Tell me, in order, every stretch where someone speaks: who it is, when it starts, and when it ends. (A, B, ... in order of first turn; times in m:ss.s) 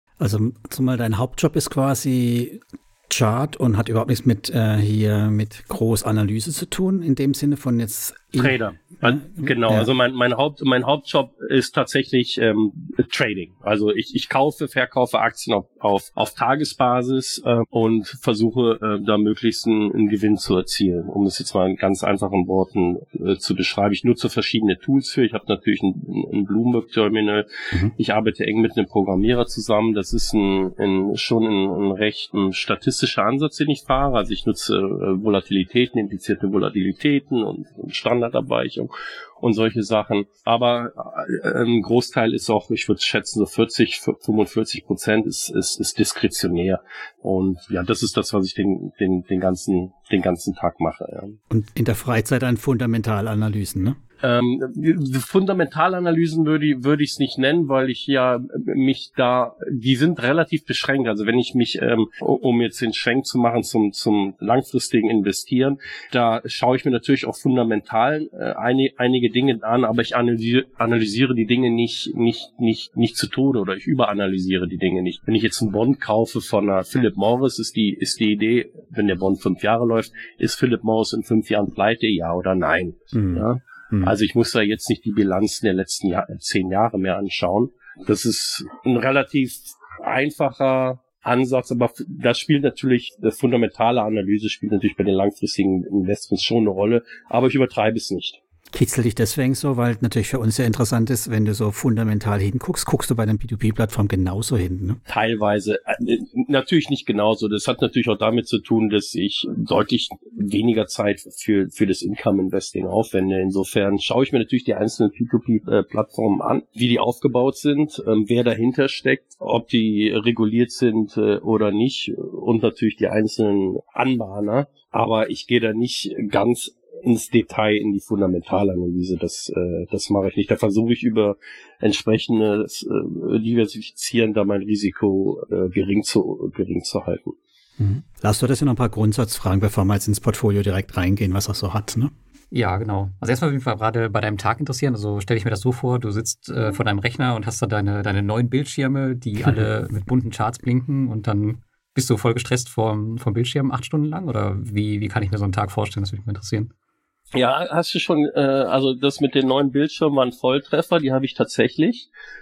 0:00.2-0:09.9 A
0:08.4-0:27.4 B
0:28.0-0:51.4 B
0:51.5-0:54.0 A
0:54.2-1:38.4 B
1:23.1-1:24.1 A
1:38.7-1:45.0 A
1:45.1-2:17.4 B
2:17.8-2:22.1 A
2:22.5-2:36.7 C
2:37.3-2:42.1 B